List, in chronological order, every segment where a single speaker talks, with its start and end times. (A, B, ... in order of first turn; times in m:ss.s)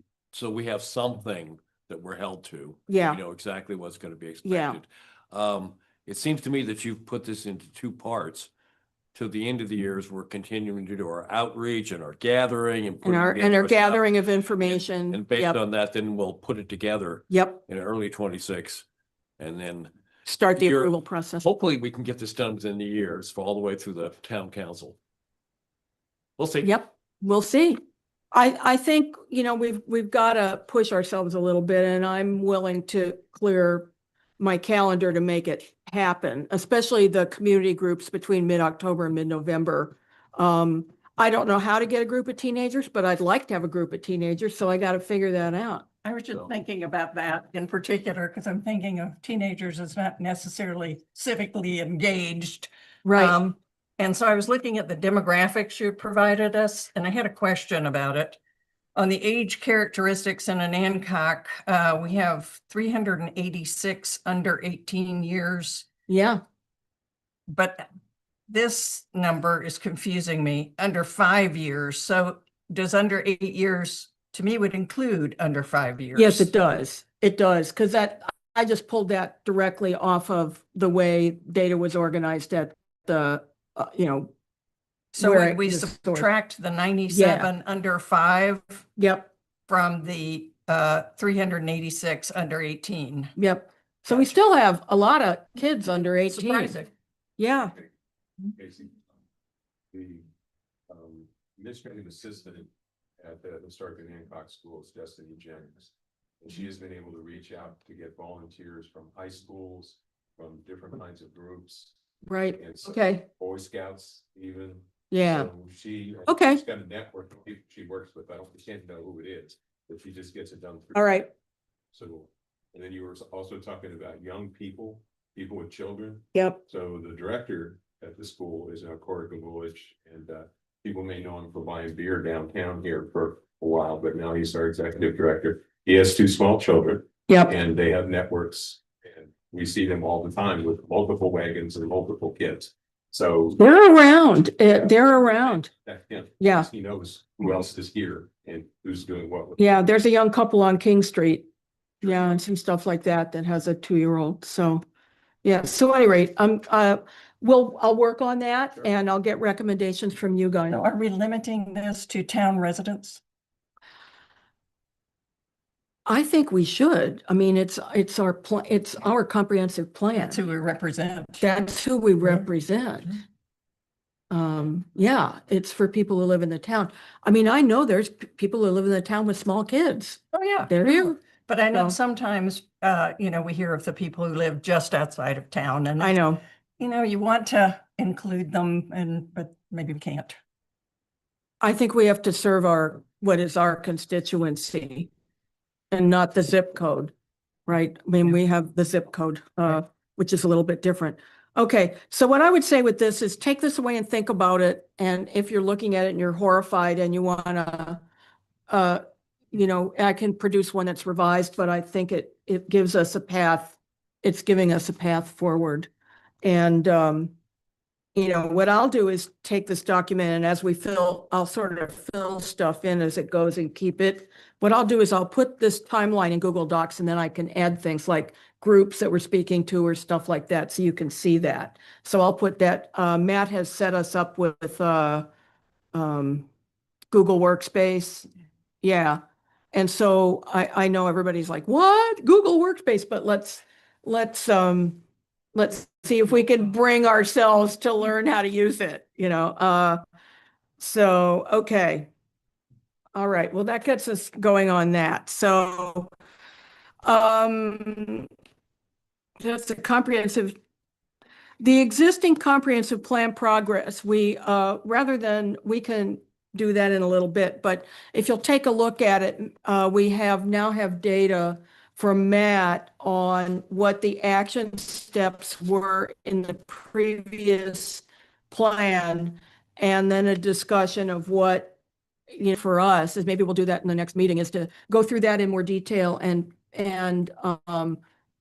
0:00.3-0:08.5 A
0:02.9-0:03.2 B
0:04.4-0:04.8 B
0:09.1-0:14.1 A
0:13.0-0:15.6 B
0:14.6-0:18.8 A
0:17.3-0:17.6 B
0:19.4-0:19.9 A
0:20.3-0:21.4 B
0:20.6-0:25.0 A
0:26.4-0:26.8 A
0:26.6-0:27.8 B
0:28.3-0:45.9 B
0:46.0-0:58.4 C
0:53.0-0:53.4 B
0:59.0-1:05.9 C
1:06.1-1:06.4 B
1:07.5-1:07.9 C
1:08.5-1:16.5 C
1:16.2-1:24.3 B
1:25.2-1:28.8 C
1:25.2-1:26.3 B
1:27.1-1:27.5 B
1:29.0-1:29.3 B
1:29.7-1:33.3 C
1:33.4-1:36.8 B
1:36.3-1:36.9 C
1:37.4-1:37.7 B
1:38.6-1:39.0 D
1:39.9-1:40.3 D
1:40.9-1:52.0 D
1:52.3-1:53.3 B
1:52.6-2:01.2 D
1:55.1-1:55.5 B
1:56.3-1:56.6 B
2:01.0-2:01.3 B
2:01.9-2:23.6 D
2:06.3-2:06.6 B
2:17.3-2:17.6 B
2:23.6-2:25.7 B
2:24.8-2:29.6 D
2:26.4-2:26.7 B
2:29.6-2:31.5 B
2:32.0-2:34.8 B
2:32.0-2:32.3 D
2:35.4-2:40.8 B
2:40.7-2:43.2 C
2:46.1-2:50.4 B
2:50.2-2:51.5 C
2:51.4-2:53.2 B
2:54.3-3:01.2 B
3:00.3-3:06.2 C
3:06.0-3:06.4 B
3:06.8-3:10.4 C
3:11.6-3:15.1 B
3:15.9-3:17.1 B
3:17.7-3:28.0 B
3:28.7-3:35.9 B
3:36.4-3:37.3 B
3:38.2-3:55.3 B
3:55.9-3:56.5 B
3:57.1-3:58.3 B
3:58.8-3:59.2 B
3:59.7-4:05.0 B
4:05.5-4:10.0 B
4:10.8-4:12.1 B
4:13.1-4:16.1 B
4:17.0-4:18.3 B
4:19.4-4:20.6 B
4:21.6-4:41.8 B
4:42.3-4:48.0 B